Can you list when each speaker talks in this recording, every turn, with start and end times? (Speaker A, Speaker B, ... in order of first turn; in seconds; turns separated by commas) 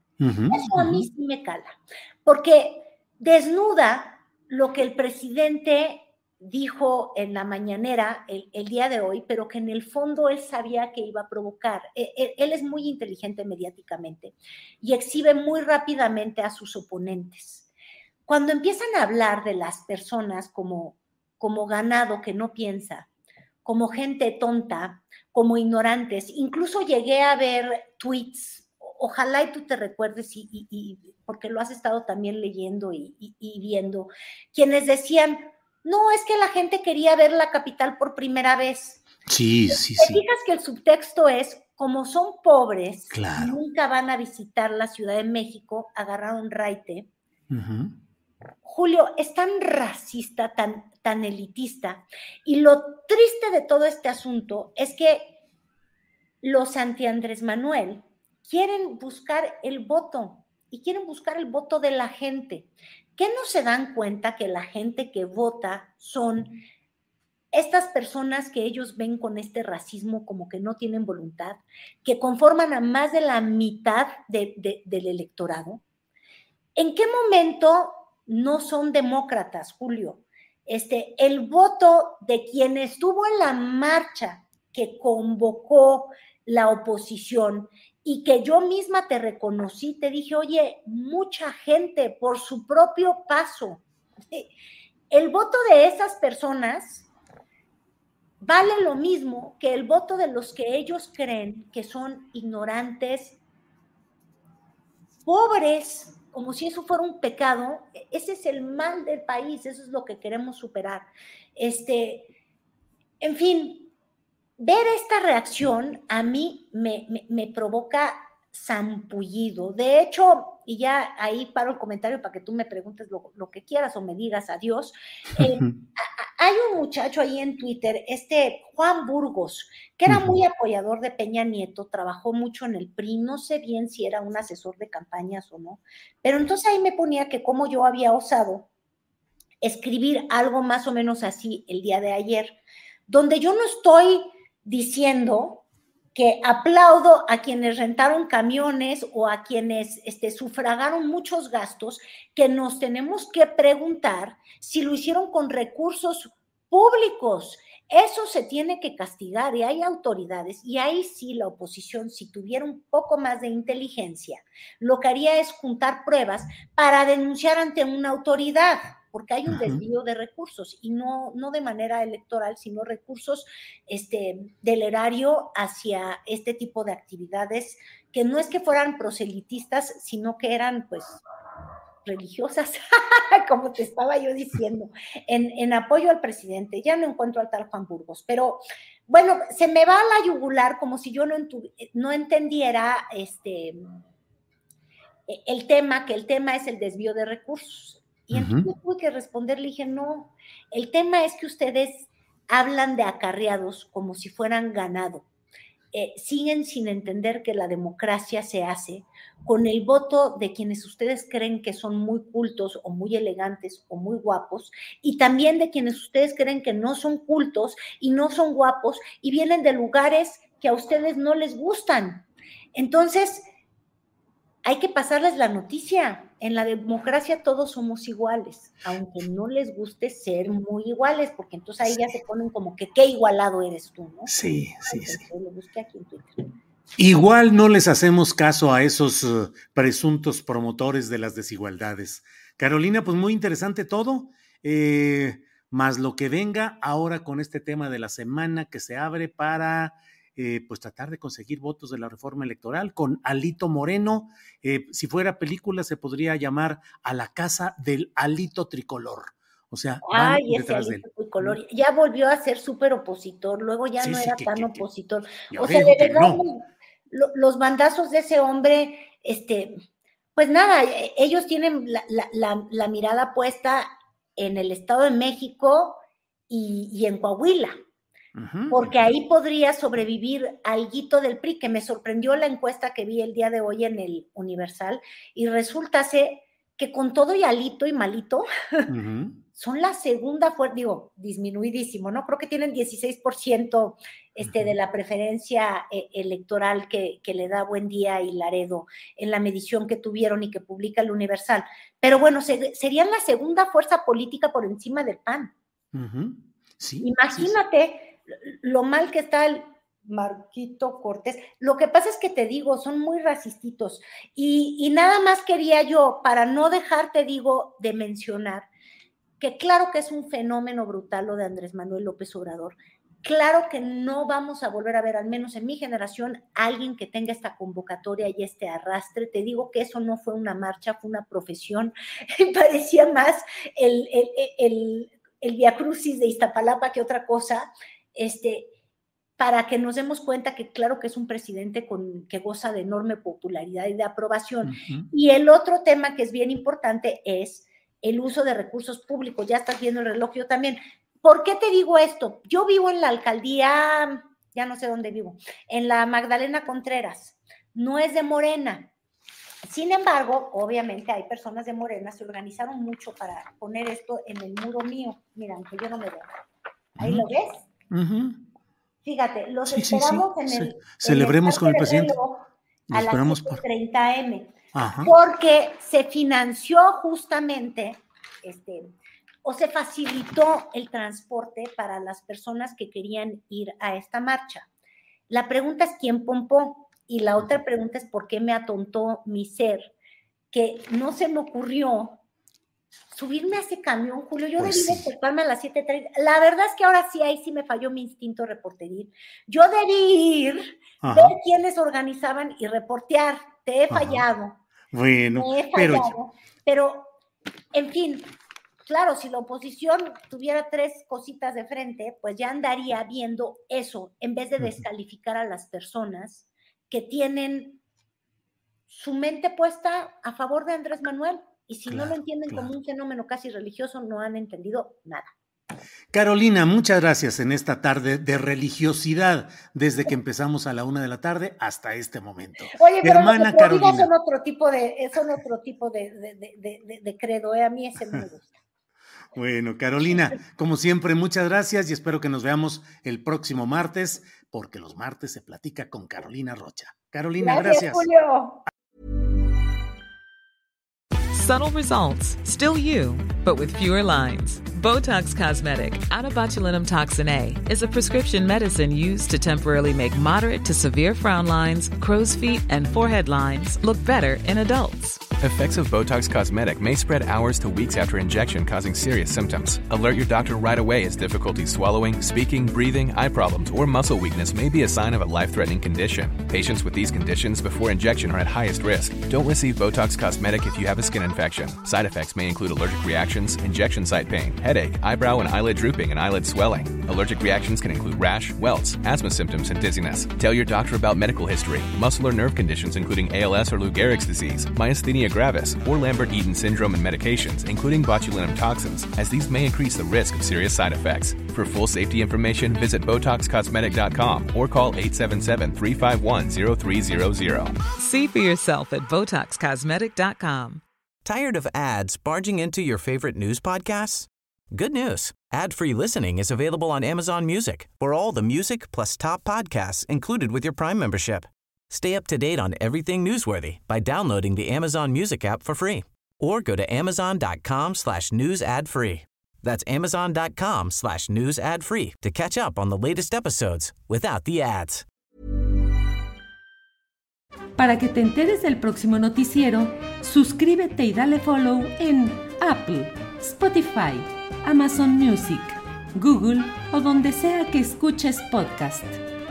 Speaker A: 0.2-1.1, Speaker B: 0.5-17.7, Speaker B: 18.3-23.1, Speaker B: 23.6-39.0, Speaker A: 39.3-40.2, Speaker B: 39.7-47.1, Speaker A: 43.1-43.6, Speaker A: 47.5-48.0, Speaker B: 48.6-55.3, Speaker B: 56.4-66.6, Speaker B: 67.5-75.8, Speaker B: 76.8-94.5, Speaker B: 95.1-97.1, Speaker B: 98.4-103.4, Speaker B: 105.3-112.3, Speaker B: 113.2-113.9, Speaker B: 114.6-138.7, Speaker A: 125.4-125.8, Speaker A: 130.1-130.4, Speaker B: 139.6-181.2, Speaker A: 169.5-169.8, Speaker B: 182.0-194.0, Speaker B: 195.3-205.3, Speaker A: 198.3-198.7, Speaker B: 205.9-223.4, Speaker B: 224.6-236.4, Speaker A: 234.3-235.2, Speaker A: 237.0-261.6, Speaker B: 260.1-269.8, Speaker A: 264.0-264.9, Speaker A: 265.5-266.4, Speaker B: 270.4-273.9, Speaker B: 274.4-277.8, Speaker A: 278.4-279.1, Speaker B: 278.7-288.9, Speaker A: 288.9-289.4, Speaker B: 289.5-305.5, Speaker A: 294.4-294.7, Speaker A: 305.9-307.6, Speaker B: 307.0-318.7, Speaker B: 319.4-338.7, Speaker B: 339.4-358.9, Speaker A: 344.6-345.1, Speaker B: 359.6-366.3, Speaker B: 367.0-367.7, Speaker A: 367.0-367.3, Speaker A: 367.9-368.4, Speaker B: 369.0-378.9, Speaker A: 369.7-372.2, Speaker A: 372.9-373.6, Speaker A: 374.7-375.1, Speaker B: 379.4-384.7, Speaker B: 385.3-389.9, Speaker B: 390.5-392.2, Speaker B: 393.1-404.6, Speaker A: 394.6-395.1, Speaker A: 401.0-401.4, Speaker A: 403.9-404.2, Speaker A: 404.9-406.1, Speaker B: 405.4-407.1, Speaker B: 407.7-408.3, Speaker B: 408.9-417.8, Speaker B: 418.9-425.3, Speaker A: 421.9-422.7, Speaker A: 426.1-434.1, Speaker B: 432.7-438.6, Speaker A: 439.3-448.1, Speaker B: 440.1-440.4, Speaker B: 447.4-448.6, Speaker C: 451.3-465.2, Speaker D: 465.4-507.8, Speaker C: 507.9-510.8, Speaker E: 511.2-535.0, Speaker F: 537.8-549.2